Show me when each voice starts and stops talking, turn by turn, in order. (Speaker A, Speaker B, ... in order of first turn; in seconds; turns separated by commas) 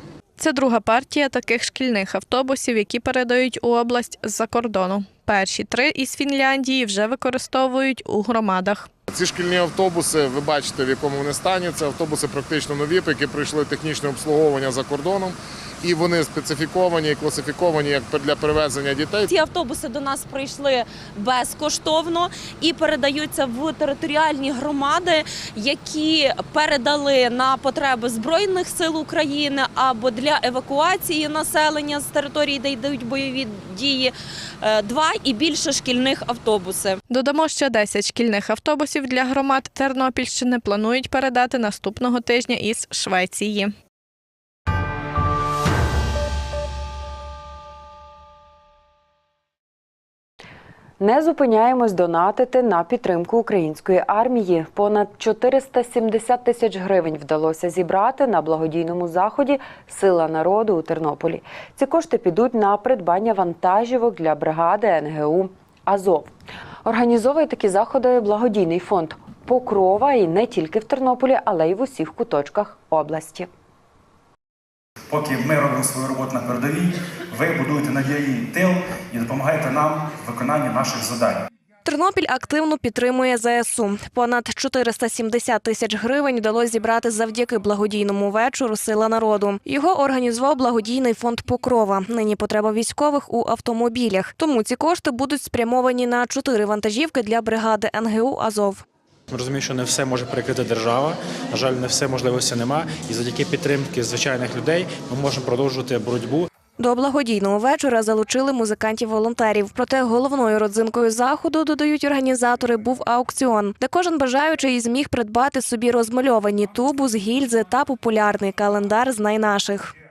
Speaker A: 0.4-8.9, Speaker B: 9.1-19.2, Speaker C: 19.2-37.0, Speaker A: 37.1-43.7, Speaker D: 51.0-66.3, Speaker D: 66.8-73.5, Speaker E: 75.1-81.4, Speaker F: 81.8-98.8, Speaker G: 99.3-106.4, Speaker F: 106.8-119.9